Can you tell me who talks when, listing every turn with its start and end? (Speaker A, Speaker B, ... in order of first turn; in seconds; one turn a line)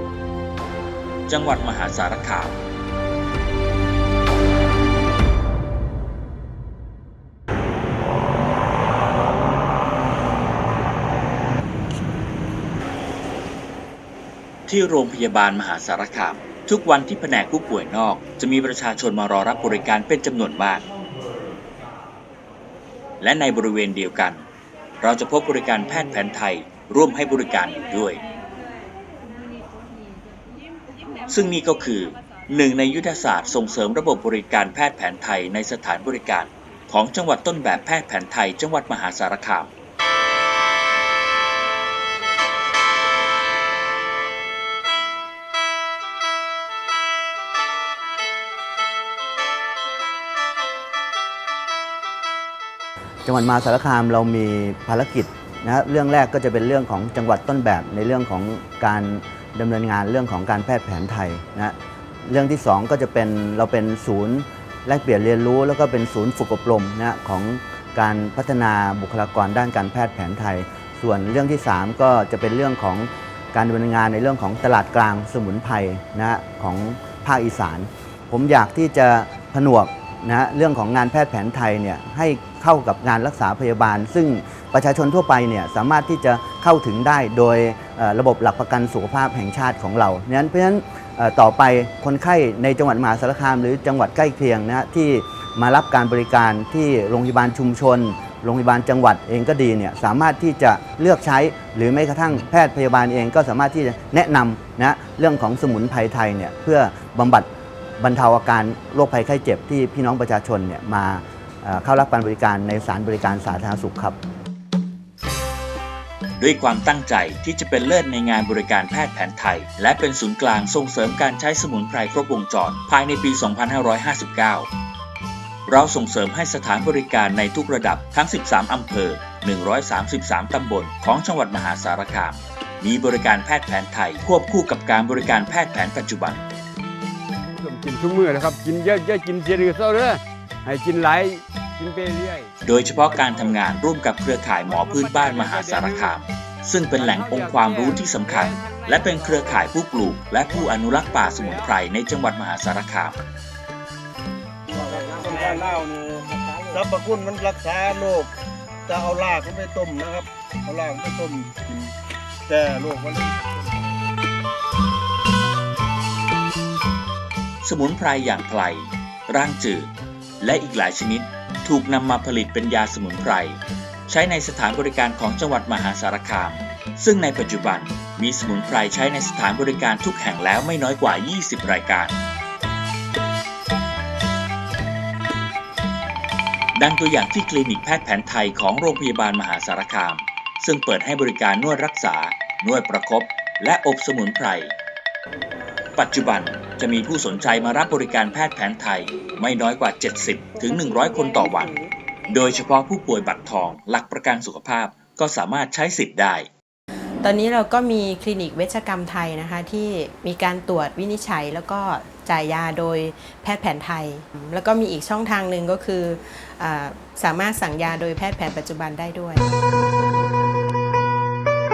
Speaker A: 1.3-2.6
Speaker A: 14.7-20.8
Speaker A: 23.2-24.4
Speaker A: 25.0-28.2
Speaker A: 31.3-39.7
Speaker B: 53.2-107.5
Speaker B: 108.0-114.2
Speaker A: 116.4-124.7
Speaker A: 125.7-136.4
Speaker C: 137.6-142.5
Speaker A: 142.6-153.2
Speaker C: 143.1-143.6
Speaker C: 144.7-146.2
Speaker C: 146.9-149.7
Speaker C: 150.4-151.8
Speaker D: 154.7-158.3
Speaker D: 158.9-161.9
Speaker D: 162.5-163.7
Speaker A: 167.6-169.9
Speaker A: 170.4-182.2
Speaker A: 186.7-194.7
Speaker A: 195.9-201.8
Speaker A: 202.3-206.5
Speaker E: 207.2-219.5